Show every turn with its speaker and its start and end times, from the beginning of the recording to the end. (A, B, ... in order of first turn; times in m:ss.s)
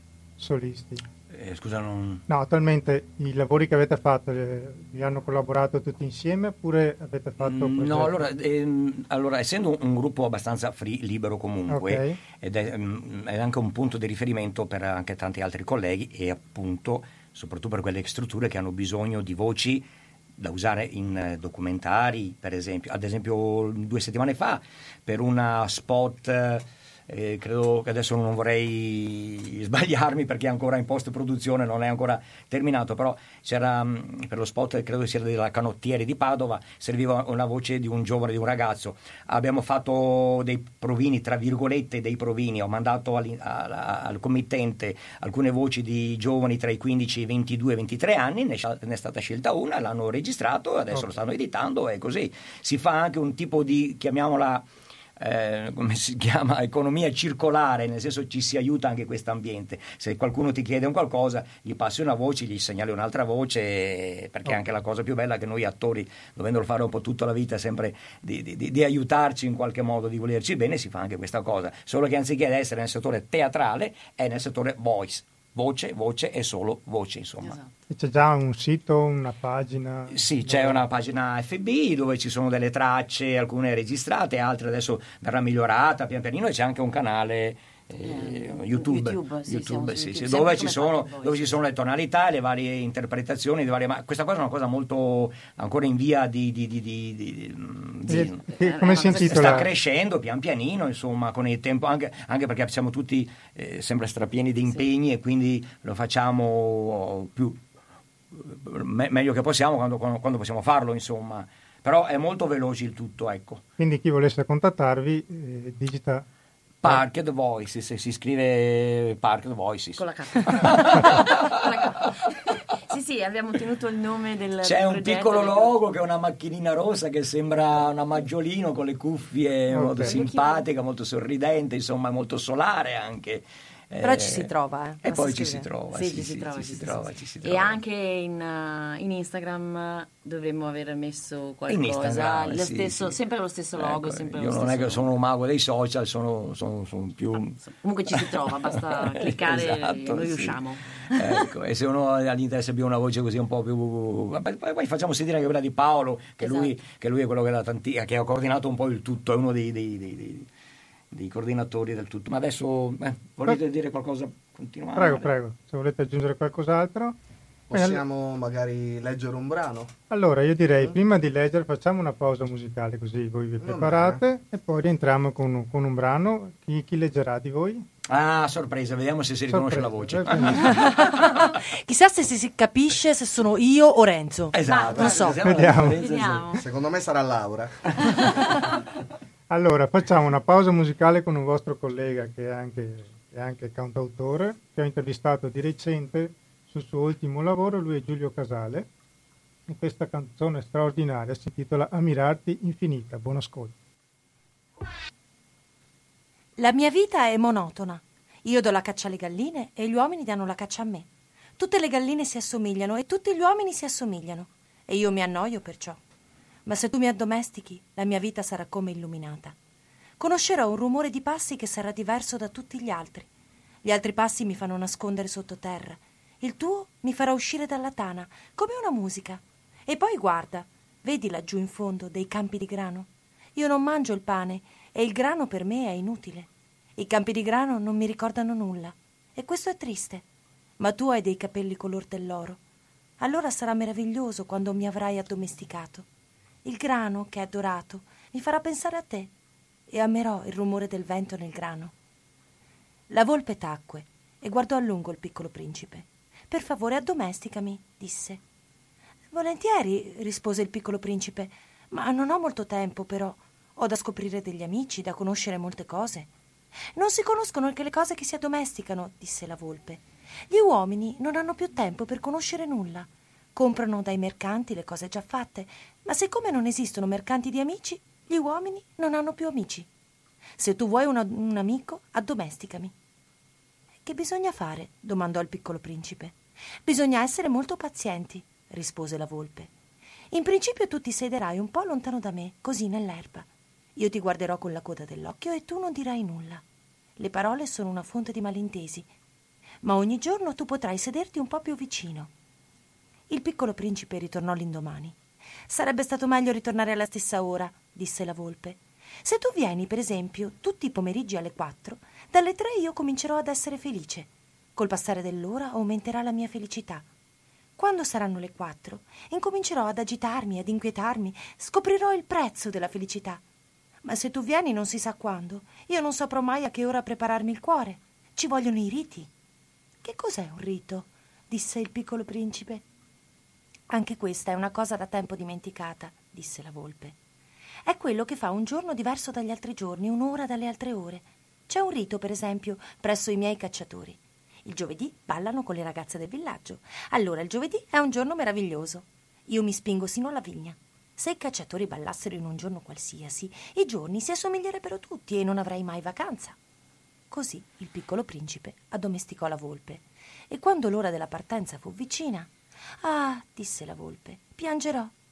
0:00.4-0:01.0 A
0:01.3-0:02.2 B
0:02.3-0:08.2 A
0:07.4-1:17.6 B
0:11.7-0:12.2 A
1:17.4-1:17.7 C
1:17.9-1:20.8 A
1:20.1-1:38.4 B
1:28.0-1:31.6 C
1:38.1-1:39.7 A
1:38.4-1:39.7 C
1:39.1-1:47.6 B
1:48.3-1:53.6 B
1:53.8-1:56.2 A
1:56.8-2:02.1 B
2:00.0-2:05.8 C
2:04.6-2:17.8 B
2:09.7-2:10.2 A
2:10.0-2:10.6 C
2:14.0-2:15.7 D
2:15.9-2:25.2 C
2:21.7-2:23.2 B
2:23.8-2:40.5 B
2:27.6-2:31.4 C
2:36.4-2:36.7 D
2:41.1-2:45.3 B
2:45.0-2:47.2 A
2:47.7-2:50.0 E
2:47.7-2:48.0 A
2:50.1-2:57.9 A
2:53.6-2:54.2 E
2:58.1-3:01.4 B
2:59.5-3:00.8 A
3:00.6-3:05.5 D
3:04.5-3:06.4 B
3:04.6-3:06.6 C
3:04.7-3:05.1 E
3:05.4-3:06.0 A
3:06.5-3:08.2 E
3:09.5-3:18.9 A
3:19.7-3:23.8 A
3:26.6-3:36.0 D
3:36.7-3:39.6 D
3:40.2-3:43.3 D
3:43.8-4:00.2 D
4:00.8-4:02.6 D
4:03.2-4:06.1 D
4:06.6-4:09.3 D
4:09.9-4:11.9 D
4:13.1-4:18.4 D
4:19.3-4:26.3 D
4:27.0-4:39.9 D
4:40.6-4:42.9 D
4:44.0-4:49.7 D
4:50.3-4:56.6 D
4:57.2-4:59.1 D
4:59.8-5:02.3 D
5:03.3-5:05.2 D
5:05.7-5:17.0 D
5:17.8-5:23.4 D
5:24.0-5:29.3 D
5:30.0-5:32.8 D
5:33.9-5:37.2 D
5:37.9-5:56.6 D
5:57.3-6:05.1 D